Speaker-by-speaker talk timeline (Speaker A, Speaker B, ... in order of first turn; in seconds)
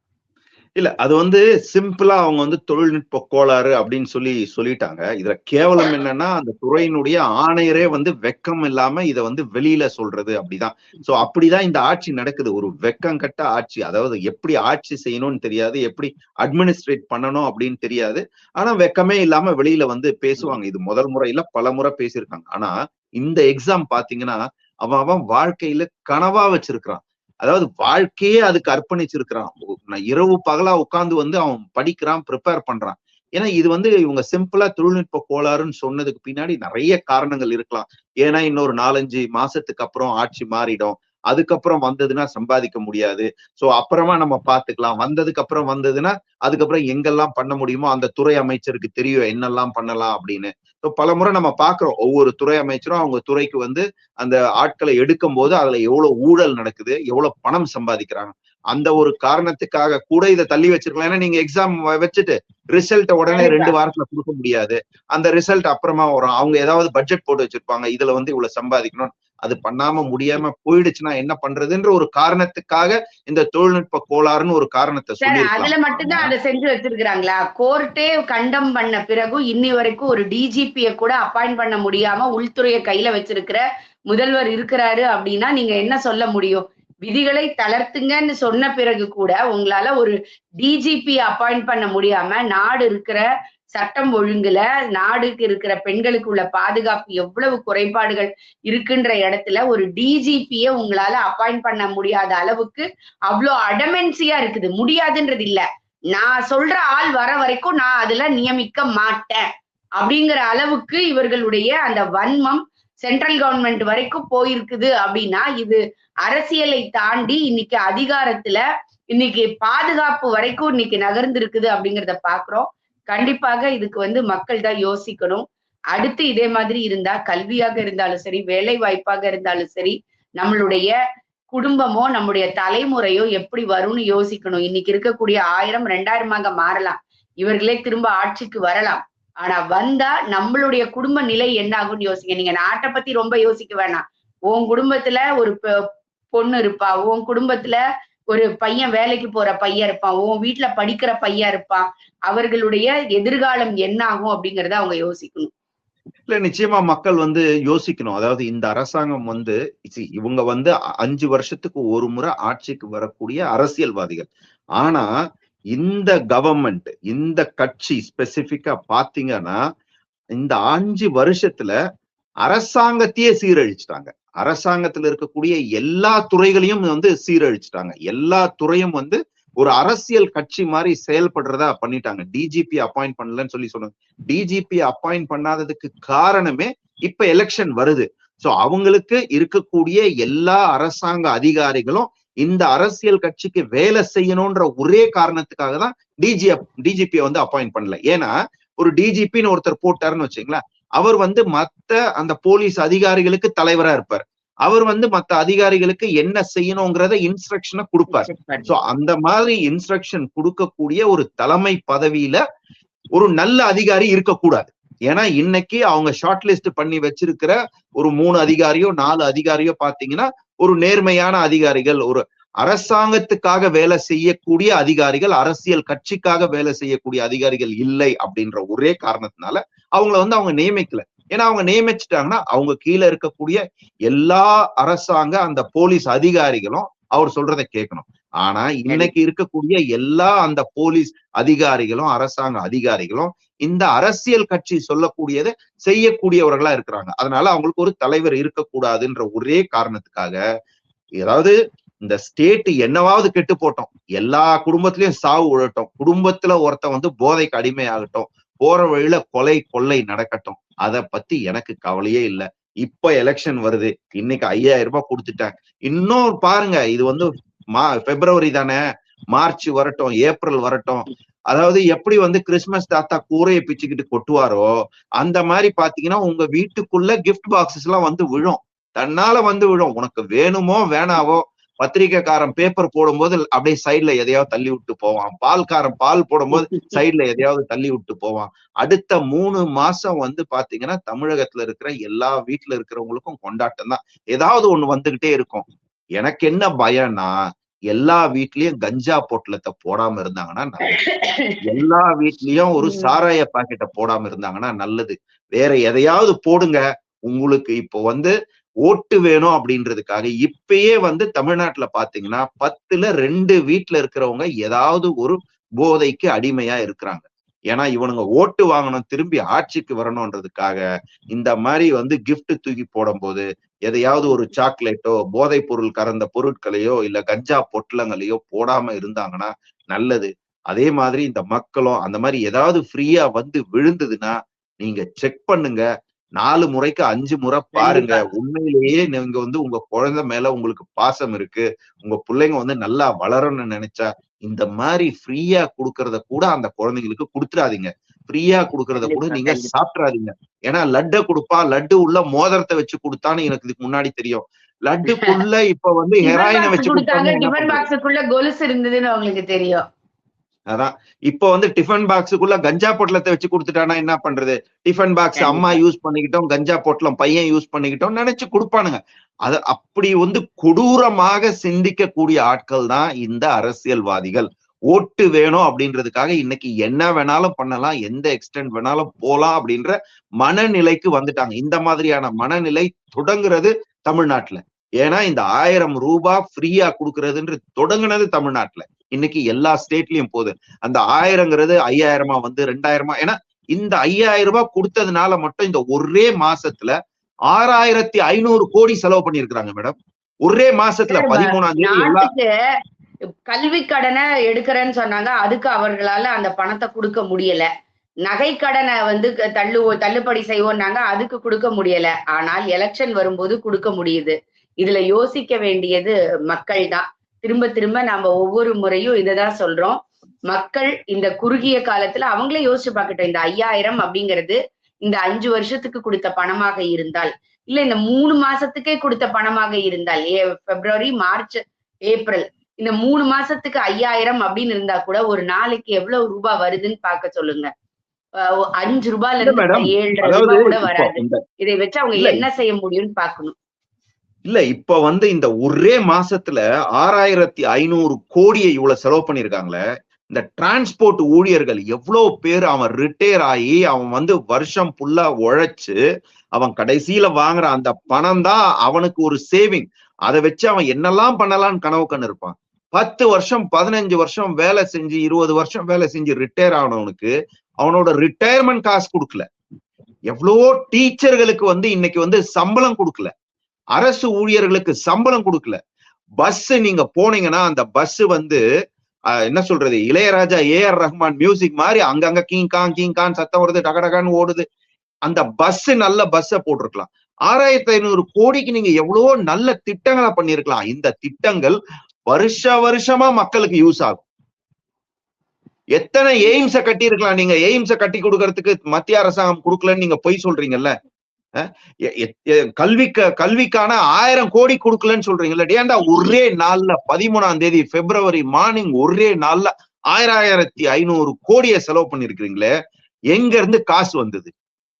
Speaker A: 0.8-76.3, 156.3-165.1, 165.7-169.6, 170.4-171.7, 172.4-212.4, 213.2-250.4, 251.2-268.8, 269.3-274.7, 275.2-297.3, 297.9-300.9, 301.6-308.3, 308.9-320.8, 321.3-335.8, 336.4-357.9, 360.7-396.9, 397.5-402.3, 439.4-441.4, 442.2-442.4, 444.5-449.8, 450.3-455.9, 456.6-469.4, 470.3-473.3, 473.9-475.8, 476.4-478.6, 479.5-484.6, 485.3-491.8, 492.3-494.2, 496.0-500.9, 501.6-512.7, 513.3-514.5
Speaker B: 63.3-63.7, 75.2-93.2, 93.8-109.5, 110.0-118.6, 119.2-130.9, 131.5-145.6, 146.3-147.8, 148.3-155.5, 208.1-208.7, 238.9-239.1, 286.6-287.0, 300.9-301.6, 302.8-303.1, 337.7-338.2, 349.0-349.7, 356.2-359.8, 365.4-365.8, 401.1-402.5, 403.5-407.7, 408.3-420.0, 420.5-437.7, 438.4-443.5